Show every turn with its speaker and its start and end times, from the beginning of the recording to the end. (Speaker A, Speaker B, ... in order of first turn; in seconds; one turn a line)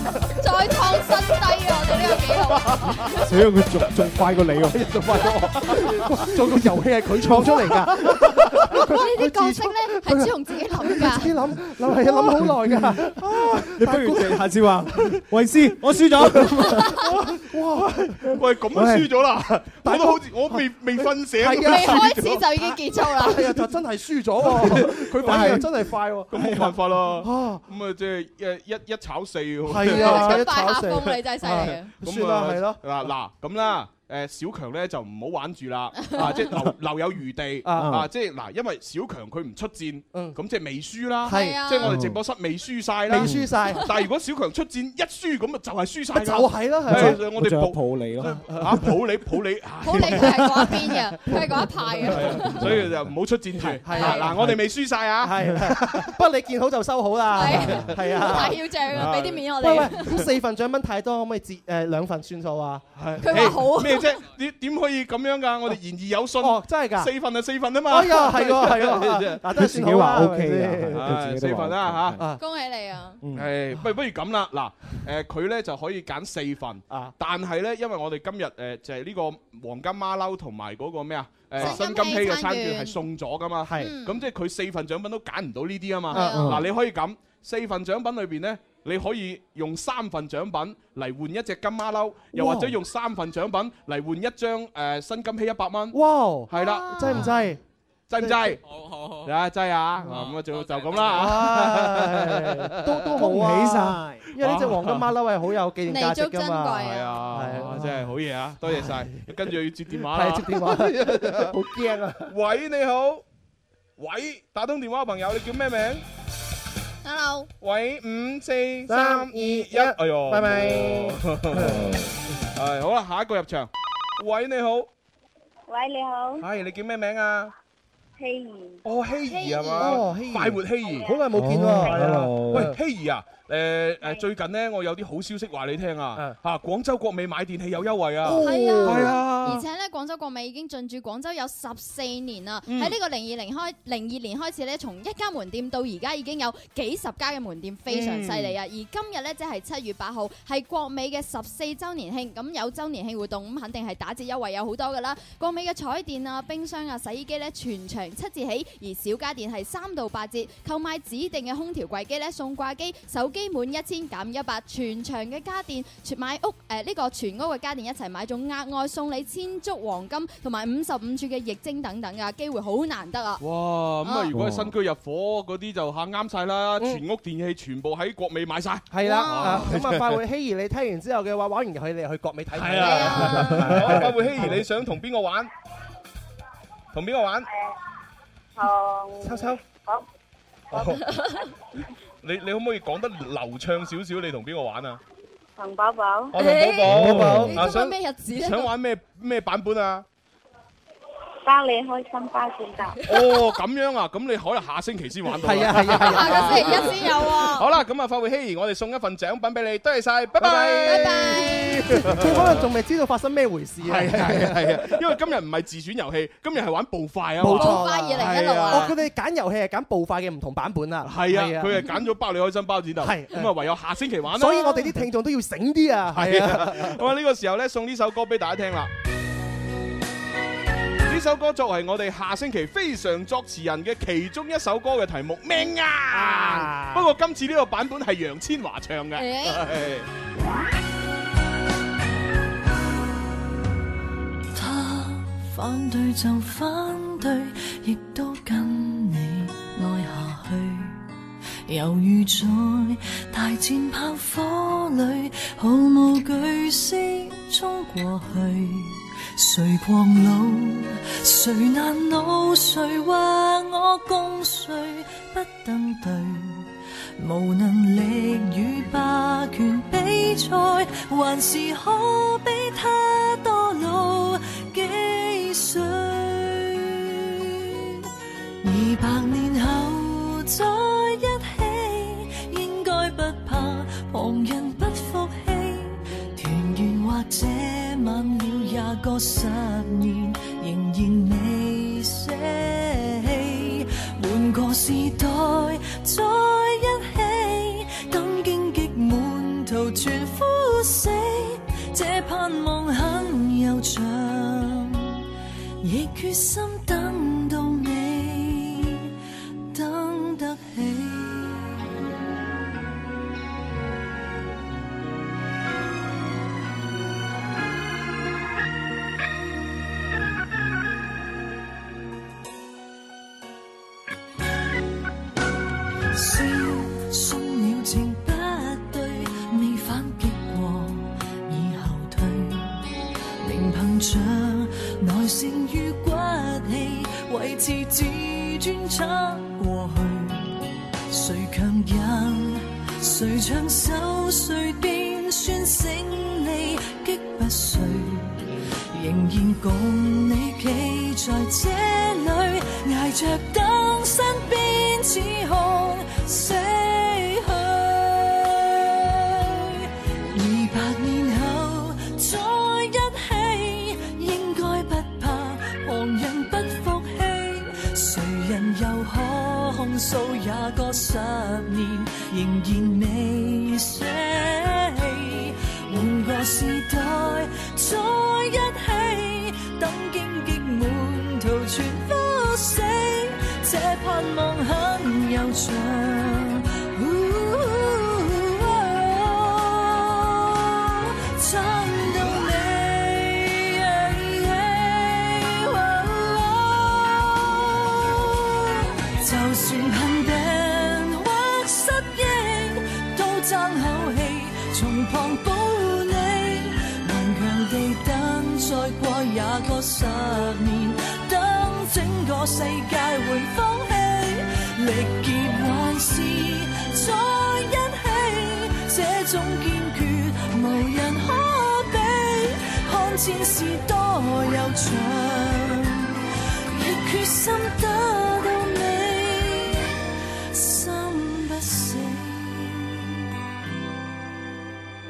Speaker A: 0.3-3.3
Speaker B: 2.5-3.0
Speaker C: 3.2-4.9
Speaker D: 4.7-14.5
Speaker C: 7.2-7.8
Speaker A: 8.9-11.4
Speaker C: 12.4-16.9
Speaker D: 16.2-18.4
Speaker B: 18.3-22.5
Speaker C: 18.7-19.1
Speaker D: 19.4-20.7
Speaker D: 21.2-26.7
Speaker A: 21.6-23.5
Speaker B: 24.4-25.7
Speaker C: 24.7-25.7
Speaker B: 26.3-30.5
Speaker C: 26.3-26.7
Speaker D: 27.2-27.6
Speaker D: 29.7-32.8
Speaker A: 29.9-31.9
Speaker B: 31.6-50.6
Speaker A: 36.0-36.3
Speaker D: 36.2-36.6
Speaker D: 37.6-37.9
Speaker C: 37.8-38.1
Speaker D: 40.1-40.4
Speaker D: 41.2-41.7
Speaker A: 41.2-42.0
Speaker C: 41.8-42.2
Speaker D: 43.1-43.8
Speaker C: 43.1-43.5
Speaker A: 43.7-44.0
Speaker D: 46.1-47.2
Speaker C: 46.9-48.9
Speaker D: 48.5-48.8
Speaker A: 49.8-52.7
Speaker C: 50.3-51.2
Speaker D: 51.3-51.6
Speaker B: 52.1-56.1
Speaker C: 52.1-53.1
Speaker D: 52.2-52.4
Speaker D: 53.8-54.4
Speaker A: 53.9-54.3
Speaker C: 54.3-54.6
Speaker D: 55.2-58.6
Speaker A: 57.3-60.3
Speaker B: 57.7-60.2
Speaker D: 59.6-63.4
Speaker B: 63.0-69.4
Speaker A: 63.2-64.2
Speaker D: 66.4-67.1
Speaker D: 67.9-71.0
Speaker C: 69.5-72.2
Speaker B: 70.9-72.2
Speaker A: 72.4-73.2
Speaker C: 73.2-73.5
Speaker B: 73.3-96.0
Speaker D: 81.6-81.9
Speaker A: 81.6-83.0
Speaker D: 83.6-83.9
Speaker A: 83.7-84.2
Speaker A: 86.1-86.5
Speaker D: 86.1-86.6
Speaker C: 86.3-86.7
Speaker D: 92.3-92.7
Speaker D: 95.9-97.6
Speaker B: 96.5-97.3
Speaker A: 96.5-97.5
Speaker B: 98.1-98.6
Speaker D: 98.2-98.6
Speaker E: 98.6-99.3
Speaker B: 99.2-102.7
Speaker E: 100.0-101.3
Speaker D: 101.1-108.1
Speaker C: 103.2-104.3
Speaker B: 104.4-105.1
Speaker A: 105.9-107.3
Speaker B: 106.9-111.5
Speaker D: 108.6-109.5
Speaker D: 110.1-112.3
Speaker B: 112.2-113.2
Speaker B: 114.0-116.0
Speaker A: 117.0-117.5
Speaker B: 117.6-121.8
Speaker D: 118.9-121.9
Speaker C: 121.6-122.0
Speaker B: 122.5-124.9
Speaker F: 125.7-126.4
Speaker B: 126.4-127.5
Speaker F: 128.2-128.8
Speaker B: 128.8-131.2
Speaker A: 129.4-129.8
Speaker D: 129.7-132.8
Speaker C: 131.3-132.7
Speaker B: 131.7-139.6
Speaker D: 138.2-139.2
Speaker A: 138.3-173.4
Speaker B: 142.7-143.0
Speaker B: 147.9-148.6
Speaker B: 173.4-180.2
Speaker C: 174.3-174.7
Speaker D: 178.9-184.6
Speaker A: 179.0-179.7
Speaker B: 182.5-185.5
Speaker A: 182.8-183.6
Speaker C: 183.6-184.5
Speaker B: 186.9-187.5
Speaker F: 188.6-190.0
Speaker D: 189.2-189.6
Speaker B: 190.7-191.0
Speaker A: 191.1-191.4
Speaker B: 192.2-195.0
Speaker F: 195.6-196.3
Speaker B: 196.3-200.1
Speaker A: 196.4-198.7
Speaker C: 196.9-197.6
Speaker D: 196.9-197.4
Speaker F: 201.4-203.0
Speaker B: 203.0-212.6
Speaker D: 205.4-207.3
Speaker A: 205.8-207.7
Speaker D: 210.4-215.0
Speaker A: 210.4-212.0
Speaker B: 213.8-218.9
Speaker D: 217.4-221.9
Speaker A: 217.5-218.9
Speaker B: 221.0-225.0
Speaker D: 223.0-223.5
Speaker D: 224.3-227.0
Speaker B: 226.1-228.9
Speaker B: 231.0-240.1
Speaker D: 236.1-237.1
Speaker A: 239.2-239.7
Speaker G: 244.5-251.0
Speaker G: 251.7-278.1
Speaker G: 278.6-305.2
Speaker G: 305.8-309.1
Speaker G: 309.7-311.8
Speaker G: 326.1-332.8
Speaker G: 333.4-426.2
Speaker G: 426.7-430.0
Speaker G: 430.5-433.1